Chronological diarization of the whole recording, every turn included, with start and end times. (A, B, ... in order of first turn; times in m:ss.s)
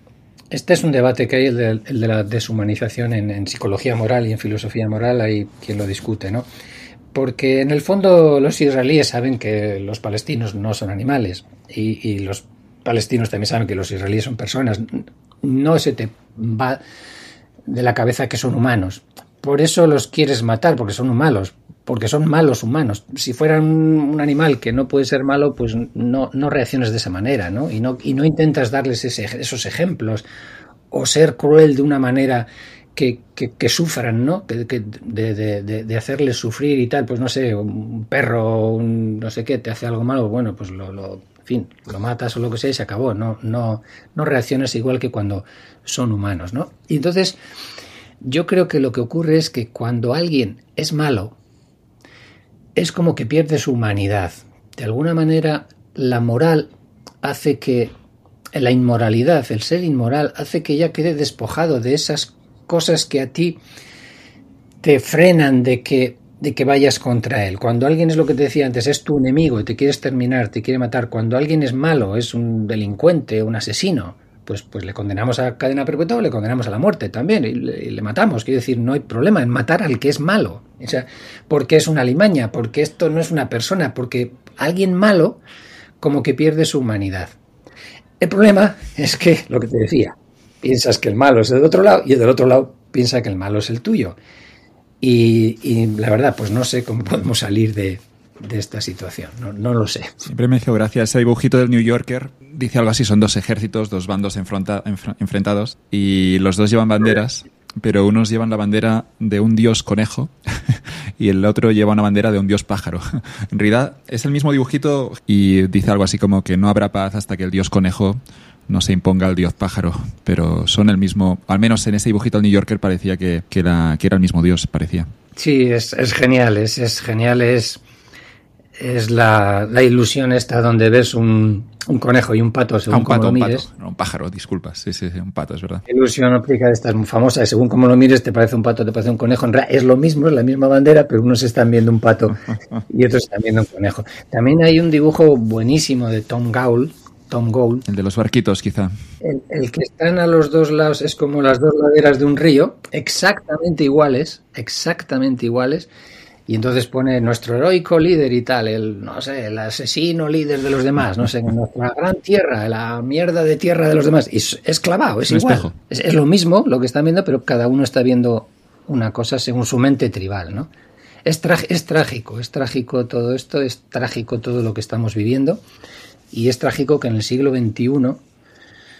0:00.5-0:06.5 A
0:07.1-0:16.8 A
0:17.7-0:30.2 A
0:30.9-0:47.4 A
0:48.2-0:51.4 A
0:52.8-0:56.7 A
0:57.2-0:57.9 A
0:58.5-1:03.6 A
1:04.8-1:25.4 A
1:26.0-1:27.4 A
1:28.2-1:34.2 A
1:35.0-1:40.1 A
1:40.3-2:05.1 B
2:05.4-2:07.8 A
2:08.8-2:13.6 A
2:12.9-2:15.8 B
2:15.9-2:22.4 A
2:22.9-2:27.8 A
2:27.9-2:28.9 B
2:29.2-2:35.9 A
2:36.5-2:50.7 A
2:45.3-2:45.8 B
2:51.2-2:55.6 A
2:56.3-2:58.2 A